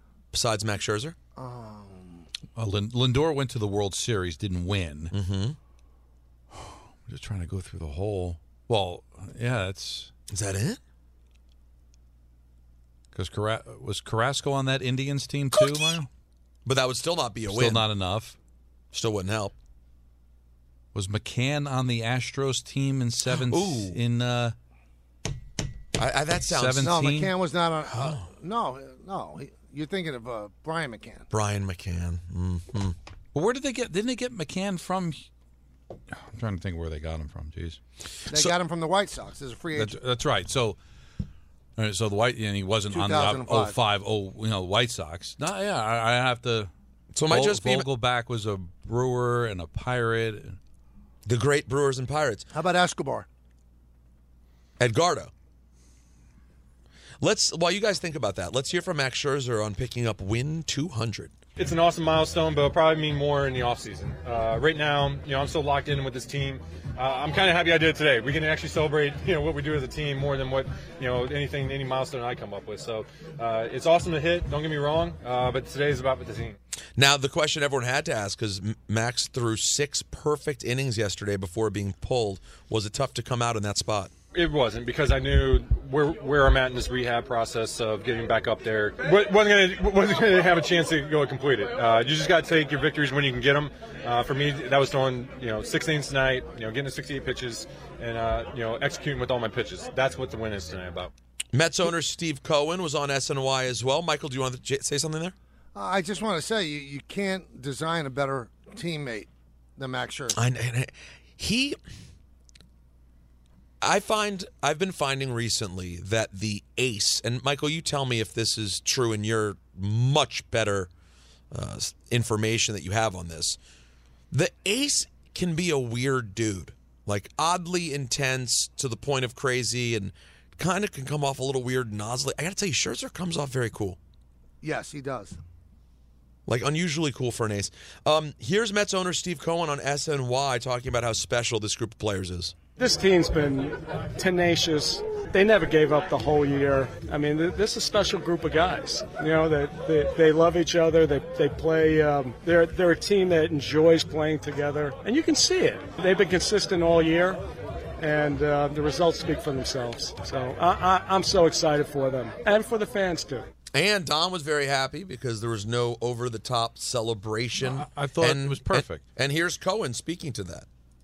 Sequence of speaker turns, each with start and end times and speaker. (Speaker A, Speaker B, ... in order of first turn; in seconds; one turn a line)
Speaker A: 0.3-1.1
Speaker B: 1.4-2.2
Speaker C: 2.5-5.1
Speaker A: 5.1-5.6
Speaker C: 6.5-10.1
Speaker A: 10.3-10.8
Speaker C: 13.1-16.1
Speaker A: 16.6-17.8
Speaker C: 17.5-18.4
Speaker A: 18.9-19.5
Speaker C: 20.9-24.5
Speaker A: 23.3-23.9
Speaker A: 25.9-26.9
Speaker C: 26.5-27.3
Speaker B: 26.8-31.2
Speaker A: 27.9-28.2
Speaker A: 31.3-32.9
Speaker C: 33.3-35.2
Speaker C: 36.1-37.8
Speaker B: 38.3-40.0
Speaker C: 39.7-40.8
Speaker C: 41.8-46.7
Speaker B: 42.9-43.8
Speaker A: 47.1-47.9
Speaker C: 47.2-50.6
Speaker A: 51.2-52.4
Speaker B: 52.5-53.3
Speaker A: 54.8-55.3
Speaker A: 57.2-61.3
Speaker D: 61.6-76.5
Speaker A: 77.0-84.1
Speaker D: 84.3-101.1
Speaker A: 101.5-105.3
Speaker B: 105.7-110.4
Speaker A: 110.3-111.8
Speaker A: 113.8-120.9
Speaker A: 121.5-123.6
Speaker A: 124.3-134.0
Speaker B: 134.6-135.4
Speaker A: 136.5-142.5
Speaker E: 142.8-157.4
Speaker E: 158.0-163.5
Speaker A: 163.7-170.7
Speaker C: 167.6-169.1